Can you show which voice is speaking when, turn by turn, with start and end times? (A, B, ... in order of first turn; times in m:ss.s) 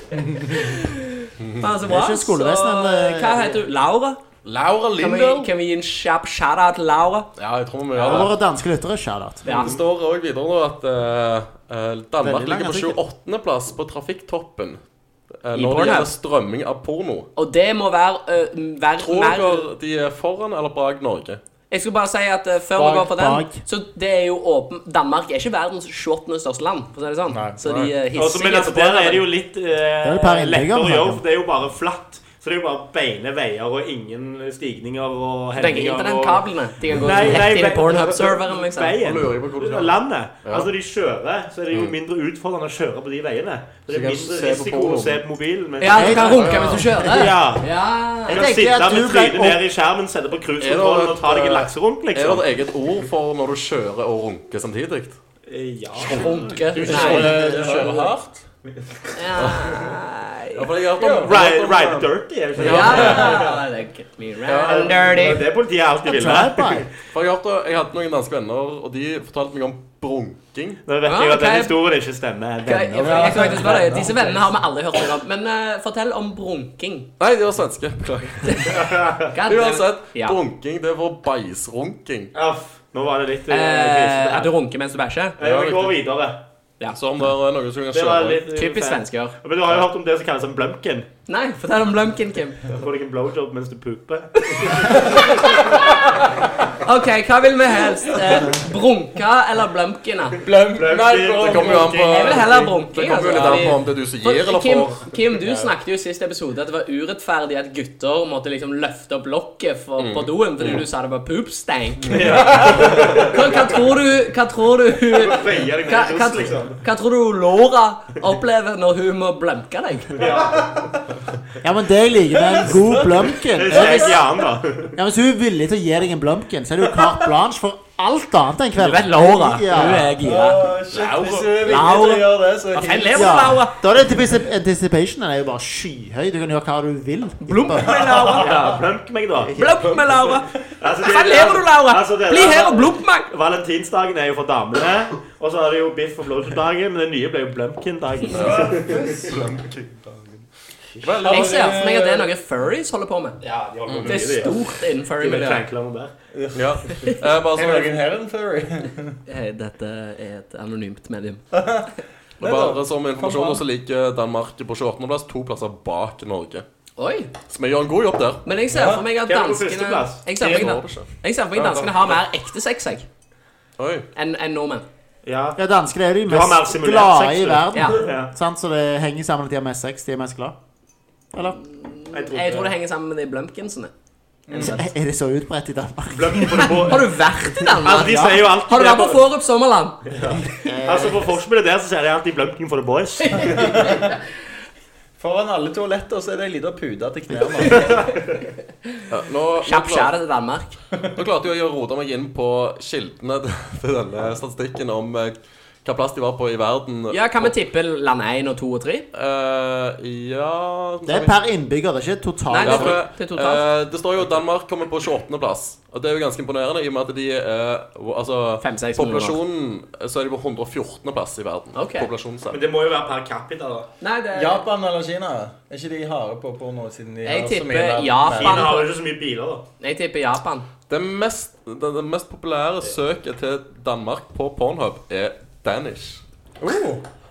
0:00.3-0:04.2 A
0:01.4-0:01.7 B
0:01.8-0:03.6 C
0:04.4-0:05.5 B
0:05.0-0:07.3 A
0:07.4-0:08.3 B
0:07.9-0:08.3 D
0:08.0-0:09.4 C
0:09.4-0:14.8 B
0:09.4-0:09.8 D
0:09.5-0:09.7 A
0:12.2-0:13.0 C
0:15.4-0:17.3 B
0:15.5-0:16.1 A
0:17.4-0:19.7 A
0:19.0-0:21.4 B
0:21.7-0:29.3 A
0:22.8-0:23.6 C
0:27.3-0:27.9 E
0:28.1-0:46.4 D
0:30.0-0:31.2 C
0:35.6-0:39.0 A
0:39.0-0:40.7 B
0:41.7-0:42.0 B
0:43.9-0:45.2 E
0:44.0-0:45.2 B
0:45.8-0:48.4 A
0:45.9-0:47.3 C
0:46.2-0:46.8 B
0:47.0-0:47.7 D
0:48.2-0:52.5 D
0:48.3-0:49.6 C
0:50.6-0:55.2 B
0:55.5-0:57.3 D
0:56.0-0:58.0 B
0:56.0-0:57.8 A
0:56.7-0:58.4 E
0:59.1-1:00.6 A
0:59.4-1:00.0 B
1:00.5-1:03.4 B
1:01.0-1:01.4 E
1:01.2-1:03.5 D
1:02.6-1:05.5 A
1:02.7-1:03.5 E
1:04.5-1:05.0 B
1:04.6-1:06.9 D
1:06.0-1:06.9 C
1:07.1-1:10.8 B
1:10.8-1:13.7 D
1:11.0-1:11.7 A
1:12.6-1:13.2 C
1:12.7-1:17.1 A
1:13.0-1:14.5 E
1:17.2-1:18.8 B
1:18.4-1:20.4 A
1:18.7-1:19.3 D
1:19.4-1:22.3 B
1:22.3-1:24.5 D
1:23.5-1:25.4 A
1:25.4-1:26.4 D
1:25.4-1:26.0 B
1:26.9-1:28.5 B
1:27.9-1:31.1 D
1:28.5-1:29.4 A
1:31.3-1:32.6 A
1:32.7-1:35.6 D
1:34.5-1:40.4 A
1:40.3-1:42.6 E
1:40.7-1:42.7 D
1:41.4-1:45.7 B
1:42.1-2:00.3 A
1:43.3-1:43.6 E
1:50.0-1:50.8 B
1:52.0-1:53.2 B
1:52.1-1:53.8 D
1:55.1-1:56.8 D
2:00.1-2:00.8 D
2:01.6-2:04.2 C
2:02.5-2:05.0 D
2:03.7-2:04.2 E
2:04.9-2:10.1 C
2:08.8-2:10.7 A
2:10.1-2:13.5 E
2:11.4-2:13.8 A
2:13.1-2:17.9 C
2:17.4-2:18.6 A
2:17.9-2:19.5 D
2:18.0-2:18.6 E
2:19.4-2:19.8 C
2:19.5-2:20.5 A
2:20.8-2:29.3 D
2:21.0-2:23.3 A
2:28.3-2:29.6 E
2:28.3-2:30.1 B
2:31.0-2:32.3 E
2:31.0-2:31.4 D
2:31.0-2:31.7 B
2:31.2-2:33.4 A
2:33.4-2:36.1 D
2:33.9-2:34.2 B
2:34.0-2:35.6 A
2:36.3-2:39.2 E
2:36.5-2:38.0 B
2:36.9-2:37.2 A
2:39.3-2:41.4 A
2:41.5-2:43.6 E
2:42.4-2:46.6 B
2:47.0-2:47.3 A
2:47.5-2:48.4 B
2:48.4-2:53.1 A
2:48.7-2:49.1 E
2:49.2-2:50.8 D
2:50.4-2:51.9 B
2:53.8-2:54.1 B
2:54.1-2:54.8 A
2:55.2-2:55.6 D
2:55.6-3:00.6 C
2:56.2-2:58.3 D
3:01.3-3:01.6 C
3:01.4-3:03.9 A
3:02.1-3:02.7 D
3:04.5-3:04.8 E
3:04.5-3:04.9 A
3:04.6-3:06.7 C
3:06.1-3:07.1 D
3:06.5-3:10.0 A
3:07.6-3:08.5 C
3:07.8-3:09.2 D
3:10.1-3:13.8 D
3:10.6-3:11.3 C
3:13.2-3:14.2 A
3:13.4-3:14.2 E
3:15.2-3:18.1 E
3:17.7-3:18.0 D
3:19.1-3:20.1 B
3:19.6-3:20.8 A
3:21.1-3:27.5 B
3:27.1-3:29.0 A
3:29.1-3:31.3 B
3:31.0-3:33.0 C
3:32.5-3:33.6 A
3:32.6-3:42.6 B
3:38.6-3:39.4 A
3:41.7-3:42.1 A
3:42.5-3:43.9 D
3:44.0-3:44.6 A
3:44.3-3:48.7 E
3:47.2-3:48.9 A
3:48.3-3:49.6 D
3:49.8-3:50.7 A
3:50.9-3:56.2 B
3:56.6-3:57.0 E